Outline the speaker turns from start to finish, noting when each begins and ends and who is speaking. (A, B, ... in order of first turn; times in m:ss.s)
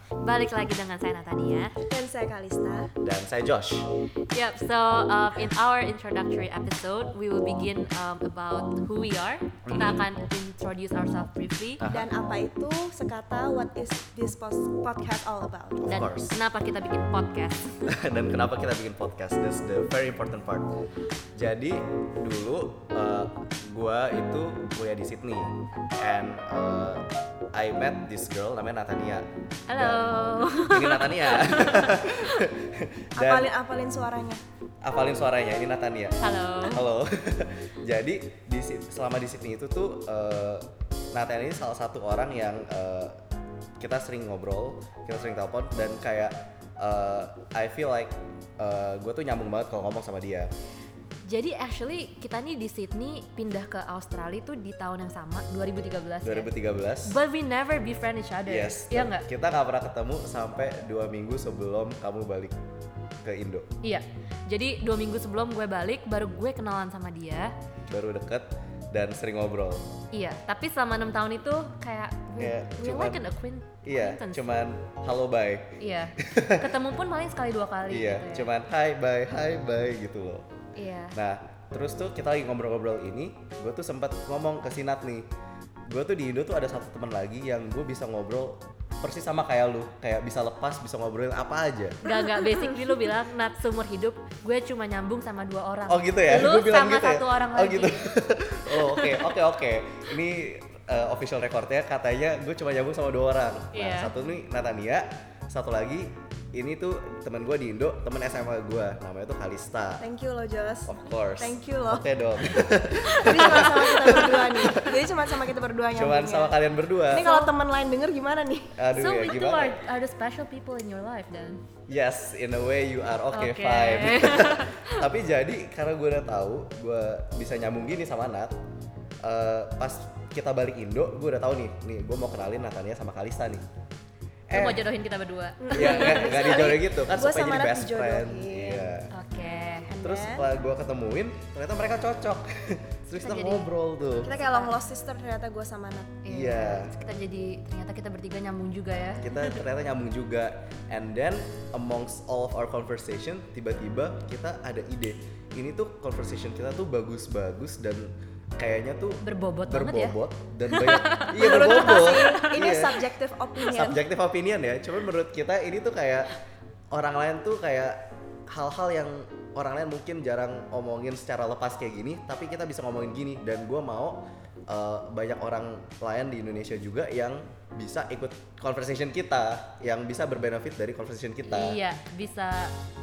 0:00.2-0:01.8 A
0:01.9-0:02.9 B
0:03.0-0:03.9 C
0:04.3-0:11.8 A
0:09.7-0:10.0 C
0:11.8-0:12.1 C
0:11.8-0:15.9 B
0:15.8-0:16.4 C
0:15.8-0:18.0 A
0:17.9-0:20.7 C
0:21.4-0:33.5 C
0:29.7-0:32.5 A
0:33.2-0:34.4 B
0:34.8-0:43.2 C
0:36.2-0:36.9 A
0:43.8-0:50.5 C
0:51.2-0:56.5 A
0:56.2-0:57.2 C
0:57.0-0:59.2 A
0:58.4-1:02.5 C
1:03.2-1:03.6 C
1:03.8-1:07.5 A
1:07.9-1:09.9 C
1:10.1-1:14.4 A
1:12.4-1:13.2 C
1:13.8-1:16.7 C
1:15.8-1:18.5 A
1:17.9-1:20.4 C
1:20.8-1:21.2 A
1:21.1-1:25.3 C
1:25.9-1:32.1 C
1:32.0-1:38.0 A
1:35.9-1:50.0 C
1:38.7-1:39.3 A
1:43.7-1:44.1 A
1:50.0-1:52.0 B
1:50.8-1:55.0 C
1:53.1-1:56.6 B
1:53.2-1:54.8 A
1:55.9-1:57.3 C
1:57.1-1:58.8 B
1:57.2-1:57.5 A
1:58.8-1:59.8 C
1:58.9-2:01.6 A
2:01.9-2:08.6 C
2:03.3-2:05.1 A
2:09.2-2:13.6 C
2:14.5-2:14.9 C
2:14.5-2:16.6 A
2:15.6-2:18.9 B
2:15.7-2:19.1 C
2:19.1-2:19.9 A
2:19.8-2:20.4 B
2:20.0-2:24.3 C
2:23.2-2:23.7 A
2:24.2-2:26.2 B
2:24.3-2:24.8 A
2:26.2-2:29.6 A
2:26.3-2:26.9 C
2:29.2-2:43.0 C
2:39.2-2:42.8 A
2:41.3-2:44.0 B
2:43.7-2:46.3 C
2:46.9-3:01.8 C
3:01.4-3:02.7 A